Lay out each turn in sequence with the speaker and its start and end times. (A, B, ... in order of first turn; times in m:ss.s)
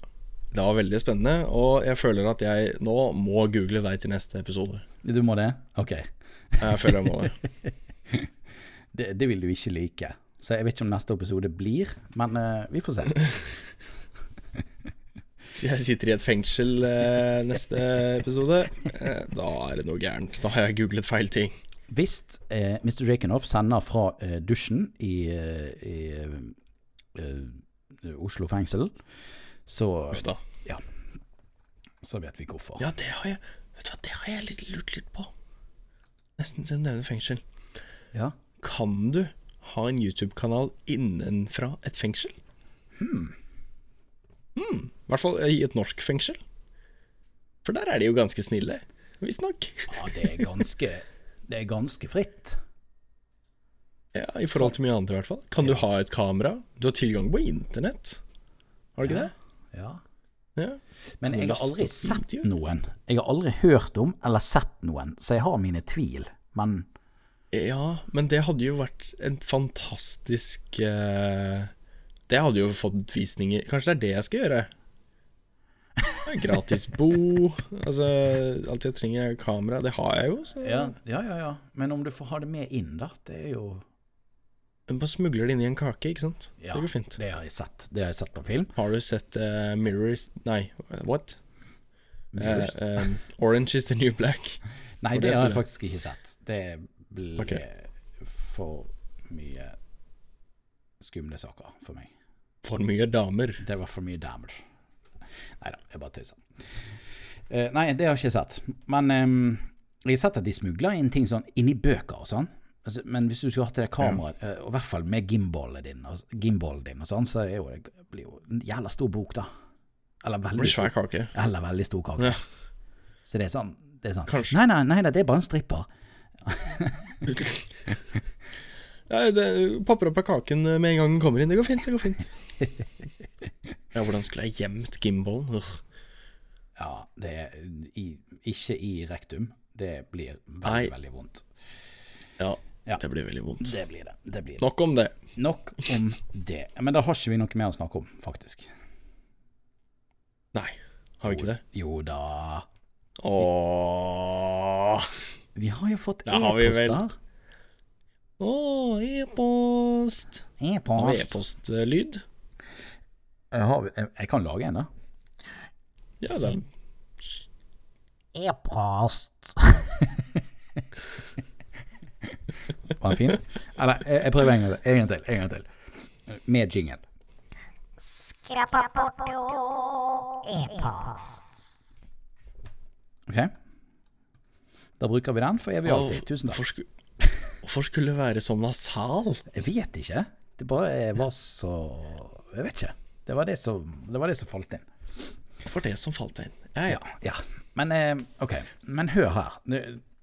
0:00.5-0:04.8 A
0:05.0-0:07.0 B
0:06.6-0:07.4 A
0:07.7-0:08.3 B
0:08.9-0:13.6 B
0:15.5-0:21.5 A
0:21.9-0:26.6 B
0:27.2-0:28.9 B
0:29.7-0:30.8 B
0:30.1-0:30.4 A
0:32.0-0:32.9 B
0:32.8-0:35.3 A
0:36.4-0:37.4 A
0:38.6-0:42.3 A
0:43.0-0:43.4 B
0:44.6-0:46.4 A
0:47.6-0:50.6 A
0:49.9-0:52.6 B
0:54.1-0:58.2 A
0:59.0-0:59.3 A
0:59.0-1:00.0 B
1:00.6-1:02.5 A
1:01.2-1:06.9 B
1:07.5-1:11.7 A
1:12.3-1:14.7 A
1:16.3-1:20.9 A
1:20.6-1:23.8 B
1:24.9-1:27.2 A
1:26.6-1:28.8 B
1:28.8-1:31.4 A
1:32.3-1:32.7 B
1:32.4-1:34.6 A
1:35.0-1:39.8 B
1:35.1-1:35.6 A
1:41.0-1:42.1 B
1:42.6-1:43.6 A
1:43.6-1:44.6 B
1:45.6-1:46.4 B
1:47.5-1:59.5 B
2:00.2-2:02.4 B
2:00.6-2:01.3 A
2:03.2-2:05.9 B
2:04.3-2:04.6 A
2:06.4-2:07.3 B
2:07.3-2:07.6 A
2:09.1-2:12.3 A
2:13.9-2:15.8 A
2:16.8-2:21.4 B
2:20.6-2:20.9 A
2:22.4-2:23.8 A
2:23.6-2:24.6 B
2:24.6-2:25.1 A
2:25.4-2:28.7 B
2:30.5-2:31.6 A
2:31.3-2:32.7 B
2:33.2-2:35.2 A
2:35.6-2:37.1 B
2:36.3-2:37.0 A
2:38.4-2:40.4 A
2:40.6-2:41.4 B
2:41.0-2:42.2 A
2:43.5-2:44.9 B
2:46.2-2:46.7 A
2:48.4-2:50.4 B
2:52.9-2:55.7 B
2:56.3-2:57.0 B
2:58.4-3:01.4 C
3:03.3-3:03.5 B
3:05.0-3:06.6 B
3:05.9-3:06.9 A
3:07.6-3:09.4 A
3:09.5-3:14.9 B
3:15.6-3:17.0 A
3:16.9-3:20.0 B